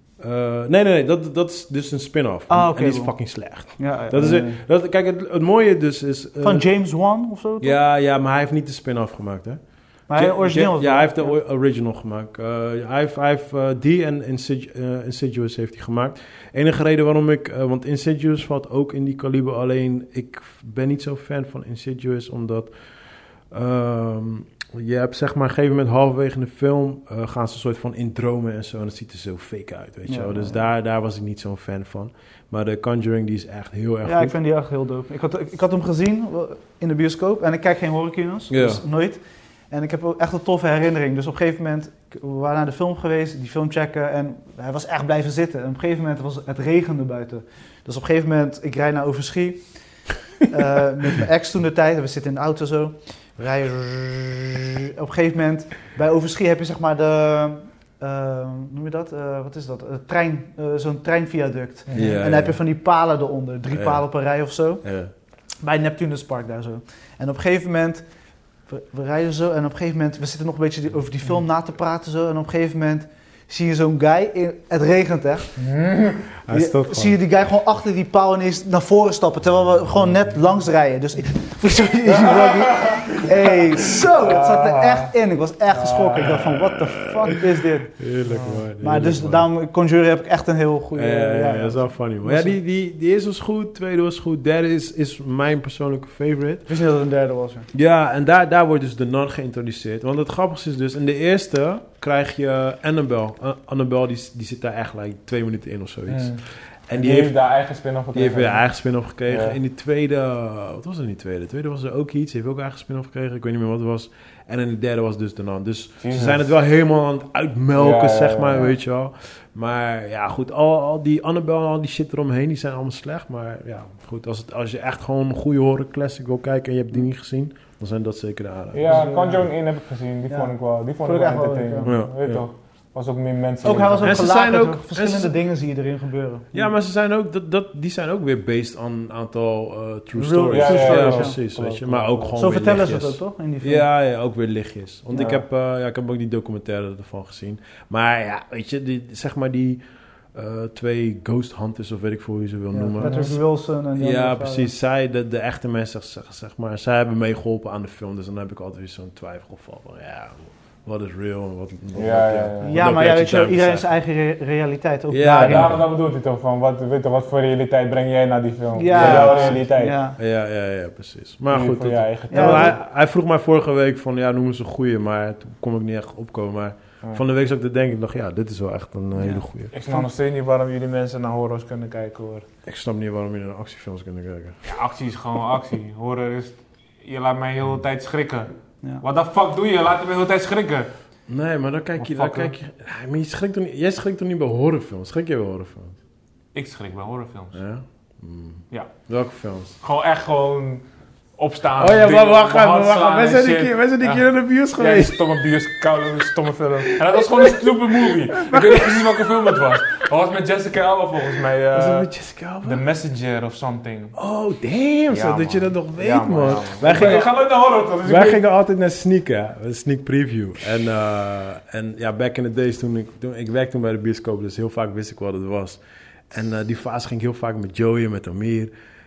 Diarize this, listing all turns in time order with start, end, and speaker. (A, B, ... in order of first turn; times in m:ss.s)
0:00.2-0:06.7 A
0:02.5-0:03.1 B
0:03.8-0:04.5 B
0:06.4-0:07.8 B
0:07.6-0:09.6 A
0:10.1-0:11.4 B
0:10.1-0:22.7 A
0:23.5-0:34.4 A
0:30.1-0:30.6 B
0:34.0-0:39.2 B
0:38.5-0:38.8 A
0:39.7-0:49.6 B
0:50.4-1:04.8 B
1:01.9-1:02.2 C
1:01.9-1:02.6 A
1:03.7-1:04.0 A
1:04.8-1:05.1 A
1:05.6-1:08.0 B
1:08.7-1:15.5 B
1:15.6-1:16.3 C
1:16.5-1:17.2 A
1:16.5-1:28.0 B
1:22.3-1:25.1 C
1:25.7-1:26.4 C
1:26.7-1:27.3 A
1:28.0-1:29.5 A
1:28.3-1:28.7 C
1:28.8-1:32.6 B
1:31.0-1:36.7 A
1:36.7-1:37.7 B
1:37.7-1:47.4 A
1:46.1-1:48.6 C
1:48.1-2:09.0 A
1:49.3-1:49.6 C
1:56.0-1:56.5 C
1:57.8-1:58.7 C
2:08.7-2:14.2 C
2:08.8-2:09.5 B
2:10.3-2:11.9 B
2:11.8-2:12.4 A
2:13.6-2:16.7 B
2:14.0-2:15.3 A
2:16.5-2:29.8 A
2:20.2-2:21.4 B
2:20.5-2:22.3 C
2:22.4-2:23.9 B
2:25.1-2:25.4 C
2:30.3-2:33.3 A
2:32.7-2:34.7 B
2:33.0-2:33.3 C
2:34.0-2:43.9 A
2:42.0-2:42.9 C
2:42.6-2:45.8 B
2:45.1-2:45.8 A
2:45.4-2:50.0 C
2:48.7-2:50.2 B
2:48.9-2:49.6 A
2:50.2-2:59.7 A
2:51.5-2:52.8 C
2:52.3-2:52.8 B
2:59.2-3:00.1 B
2:59.7-3:02.5 C
3:02.7-3:04.6 A
3:04.6-3:10.9 C
3:11.3-3:16.0 A
3:12.0-3:12.5 C
3:16.5-3:17.6 C
3:17.5-3:19.8 A
3:19.8-3:20.8 C
3:21.4-3:32.1 C
3:21.8-3:25.3 A
3:27.1-3:29.8 A
3:31.7-3:32.8 A
3:32.6-3:34.1 C
3:34.2-3:37.3 A
3:35.1-3:38.4 C
3:38.0-3:48.7 A